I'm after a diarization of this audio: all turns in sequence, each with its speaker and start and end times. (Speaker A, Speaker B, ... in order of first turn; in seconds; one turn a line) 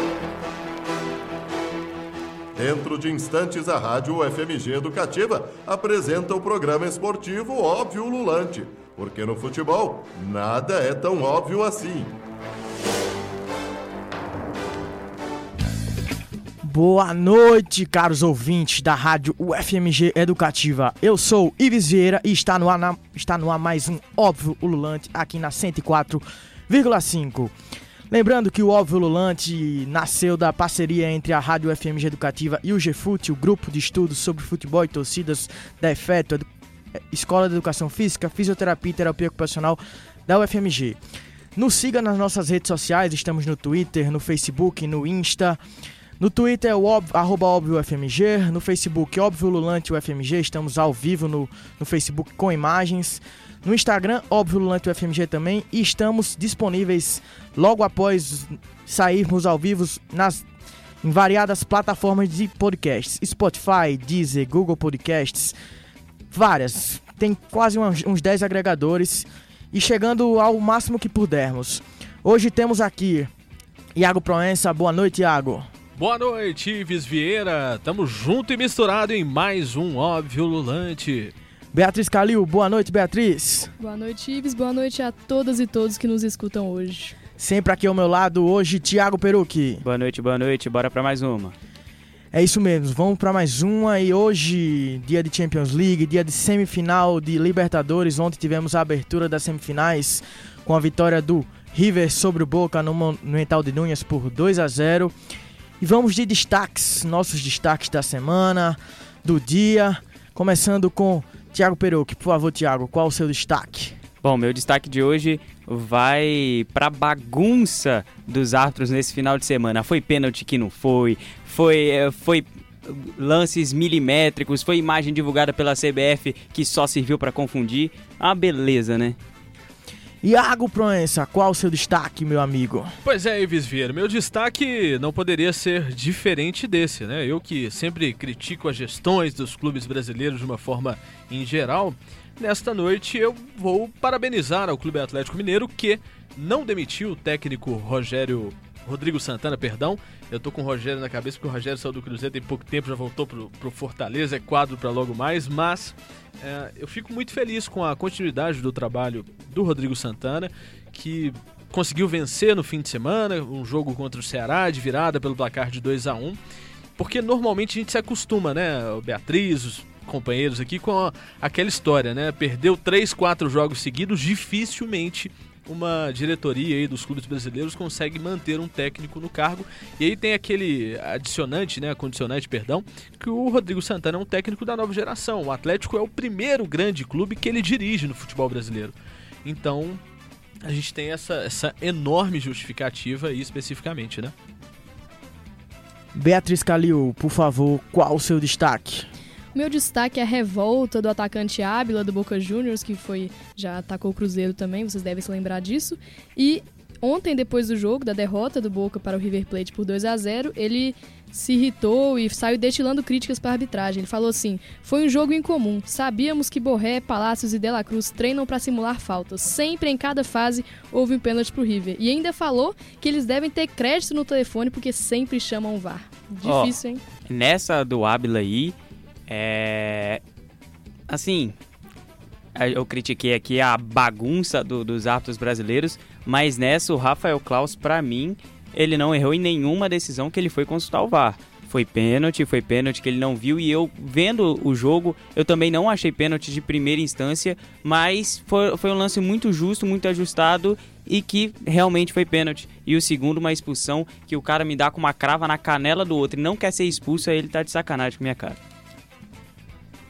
Speaker A: 2.5-12.1
Speaker B: 16.6-27.5
Speaker B: 28.1-36.5
Speaker B: 37.1-41.0
Speaker B: 41.6-45.6
Speaker B: 46.2-60.4
Speaker B: 61.0-65.5
Speaker B: 66.3-73.3
Speaker B: 74.0-75.7
Speaker C: 76.0-81.3
Speaker B: 81.7-83.7
Speaker D: 83.8-87.2
Speaker B: 87.4-89.8
Speaker E: 89.8-91.6
Speaker B: 92.3-105.1
Speaker B: 105.8-114.0
Speaker E: 114.2-129.2
Speaker B: 130.2-132.9
Speaker C: 133.1-166.4
Speaker C: 167.0-188.9
Speaker C: 189.4-190.0
Speaker C: 190.6-194.3
Speaker B: 196.2-199.1
Speaker D: 199.5-227.0
Speaker E: 226.4-226.7
Speaker E: 227.2-228.8
Speaker E: 229.3-230.2
Speaker E: 231.1-231.6
Speaker E: 232.6-258.6